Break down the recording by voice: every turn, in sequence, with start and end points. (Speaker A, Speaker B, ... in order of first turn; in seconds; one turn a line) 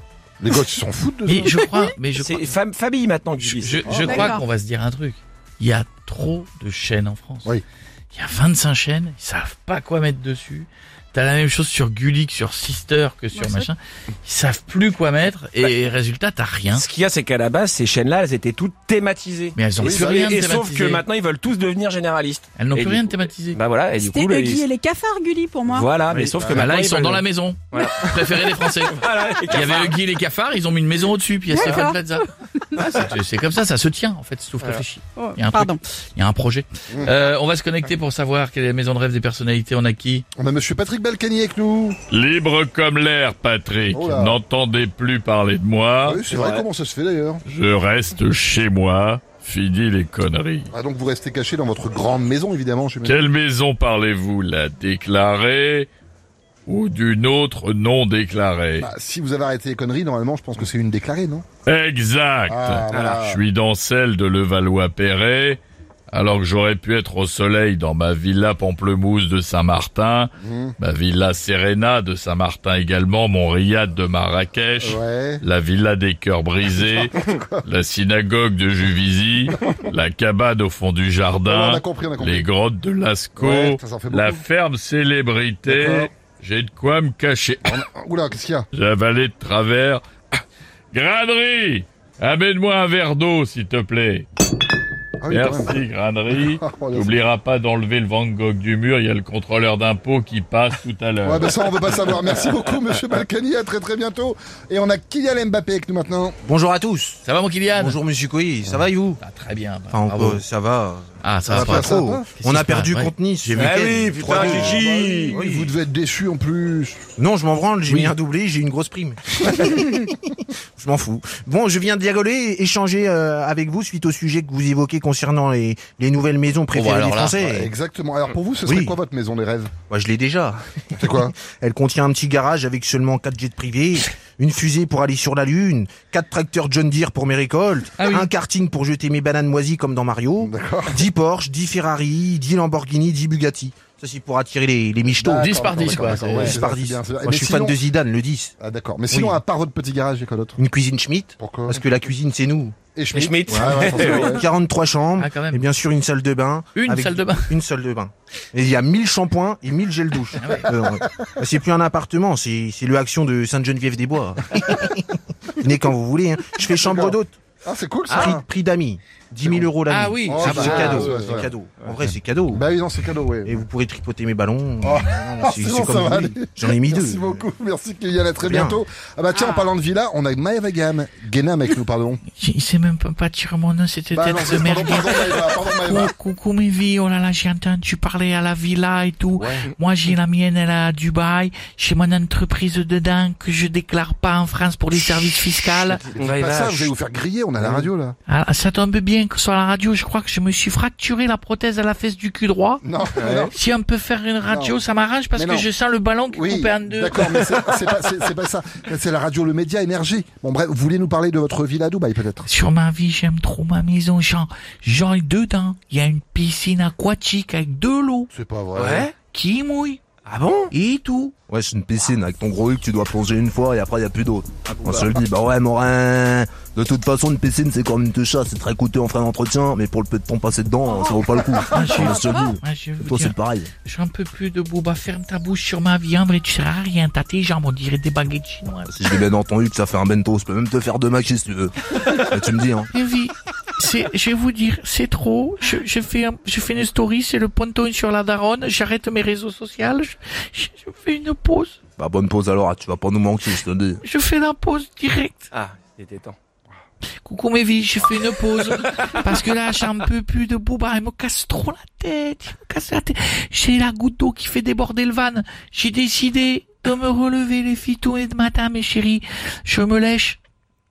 Speaker A: 0.4-1.5
Speaker B: 1.3-2.5
Speaker C: 2.1-4.3
Speaker B: 3.4-7.5
Speaker A: 3.9-4.3
Speaker D: 4.0-4.4
Speaker B: 8.1-16.9
Speaker D: 13.3-13.7
Speaker C: 16.7-24.7
Speaker B: 19.6-21.0
Speaker A: 19.8-20.4
Speaker B: 22.6-23.6
Speaker D: 23.9-25.9
Speaker C: 25.7-30.0
Speaker E: 26.1-26.4
Speaker B: 26.4-40.2
Speaker D: 31.5-32.0
Speaker D: 35.2-35.8
Speaker A: 40.4-42.0
Speaker F: 42.1-46.3
Speaker A: 43.9-44.4
Speaker A: 46.0-47.4
Speaker F: 47.5-50.7
Speaker A: 50.7-53.3
Speaker F: 53.0-55.9
Speaker F: 56.7-58.9
Speaker A: 58.8-61.5
Speaker F: 61.7-87.8
Speaker A: 62.5-63.4
Speaker C: 62.9-63.2
Speaker A: 70.4-70.8
Speaker A: 74.8-75.4
Speaker A: 76.7-77.6
Speaker A: 81.5-82.5
Speaker A: 83.4-84.4
Speaker A: 85.7-86.1
Speaker A: 87.7-88.7
Speaker F: 88.7-90.0
Speaker F: 90.9-94.3
Speaker A: 95.2-95.8
Speaker F: 95.3-102.0
Speaker A: 96.3-97.2
Speaker A: 101.2-106.4
Speaker E: 106.5-107.2
Speaker B: 107.2-108.0
Speaker E: 107.7-109.2
Speaker B: 109.2-110.4
Speaker E: 109.9-115.8
Speaker B: 111.2-113.7
Speaker A: 111.5-112.3
Speaker C: 113.6-115.4
Speaker A: 114.2-117.0
Speaker E: 117.2-127.7
Speaker B: 126.7-127.7
Speaker A: 127.5-129.7
Speaker E: 128.7-129.0
Speaker E: 129.9-148.5
Speaker A: 131.0-131.3
Speaker B: 138.0-138.3
Speaker A: 140.4-141.0
Speaker A: 145.2-147.8
Speaker B: 145.4-146.6
Speaker A: 148.6-150.6
Speaker E: 149.1-149.4
Speaker E: 150.6-152.8
Speaker A: 151.4-151.8
Speaker A: 152.9-154.4
Speaker C: 153.1-154.3
Speaker E: 153.5-167.4
Speaker B: 155.2-155.7
Speaker B: 156.8-157.6
Speaker B: 160.4-160.7
Speaker A: 166.8-168.4
Speaker E: 168.1-172.7
Speaker B: 169.9-171.1
Speaker A: 170.3-173.6
Speaker E: 173.4-177.4
Speaker A: 174.8-182.2
Speaker E: 178.4-178.8
Speaker B: 182.4-196.0
Speaker A: 184.1-186.1
Speaker A: 189.4-189.7
Speaker C: 196.1-196.9
Speaker A: 196.1-198.2
Speaker B: 198.3-202.8
Speaker A: 202.8-203.5
Speaker C: 203.2-203.5
Speaker B: 203.5-207.4
Speaker A: 204.4-204.8
Speaker A: 205.4-205.7
Speaker A: 206.3-212.5
Speaker B: 212.4-220.0
Speaker A: 218.3-219.1
Speaker E: 220.3-220.7
Speaker B: 220.7-221.3
Speaker E: 221.5-233.7
Speaker A: 224.9-225.1
Speaker D: 230.9-232.5
Speaker B: 231.7-238.9
Speaker E: 238.9-242.9
Speaker B: 242.9-251.8
Speaker E: 252.0-254.0
Speaker B: 254.0-255.5
Speaker C: 255.5-256.4
Speaker B: 257.2-270.4